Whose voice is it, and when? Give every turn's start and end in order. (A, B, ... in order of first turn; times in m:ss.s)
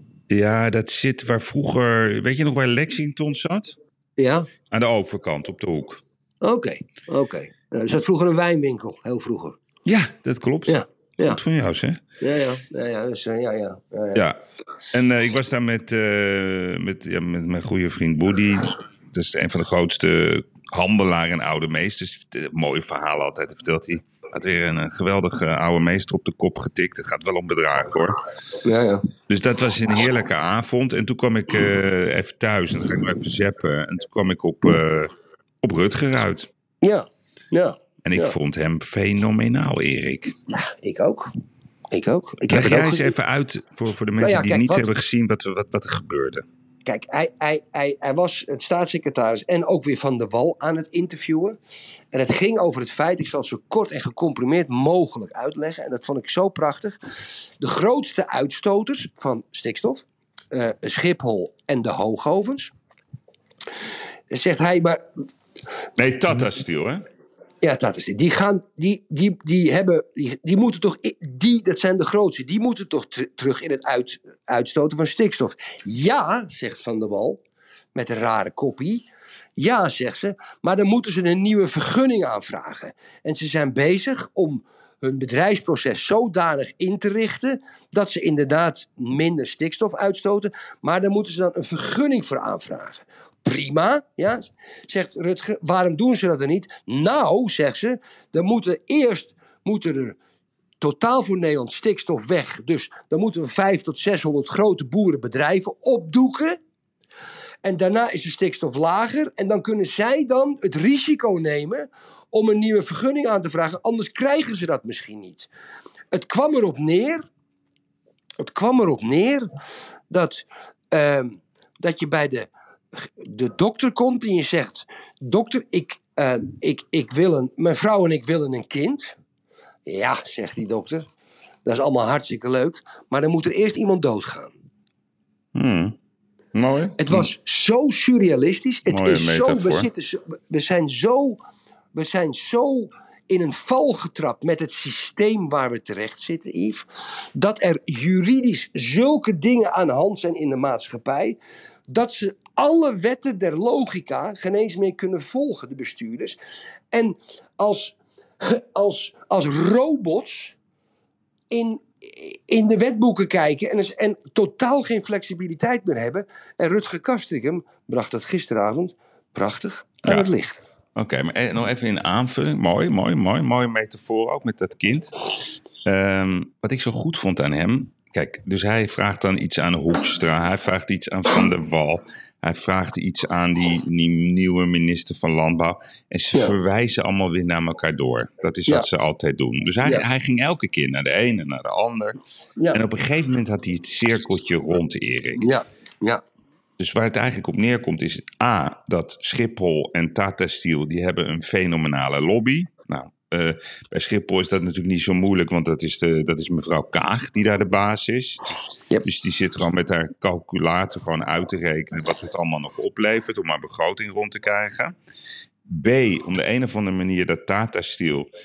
0:00.3-0:03.8 A
0:04.2-0:04.5 B
0:04.7-0:06.0 A
0:06.4-0:09.6 B
0:09.8-0:12.0 A
0:10.7-0:11.4 B
0:12.2-0:14.2 B
0:14.9-0:28.2 A
0:28.6-0:29.0 B
0:29.3-0:36.5 A
0:36.8-0:38.4 B
0:38.0-0:40.4 A
0:40.5-0:41.3 B
0:41.9-0:43.1 B
0:42.4-0:46.5 A
0:44.2-0:44.9 B
0:46.9-0:51.6 B
0:52.1-0:57.0 B
0:57.6-1:02.7 B
1:04.3-1:05.2 B
1:06.0-1:07.0 A
1:07.6-1:17.4 B
1:18.0-1:19.1 B
1:19.6-1:40.2 B
1:40.8-1:46.6 B
1:47.6-1:55.5 B
1:56.1-1:57.3 B
1:58.4-1:59.5 B
2:00.1-2:09.2 B
2:09.8-2:11.1 B
2:11.6-2:14.5 B
2:15.6-2:16.0 A
2:16.5-2:17.3 A
2:17.0-2:21.4 B
2:18.9-2:19.9 A
2:21.9-2:36.4 B
2:36.9-2:40.6 B
2:41.5-2:50.6 B
2:51.0-2:55.3 A
2:55.8-3:12.2 A
3:12.7-3:15.5 A
3:15.4-3:16.2 B
3:16.8-3:35.0 A
3:35.7-3:38.3 A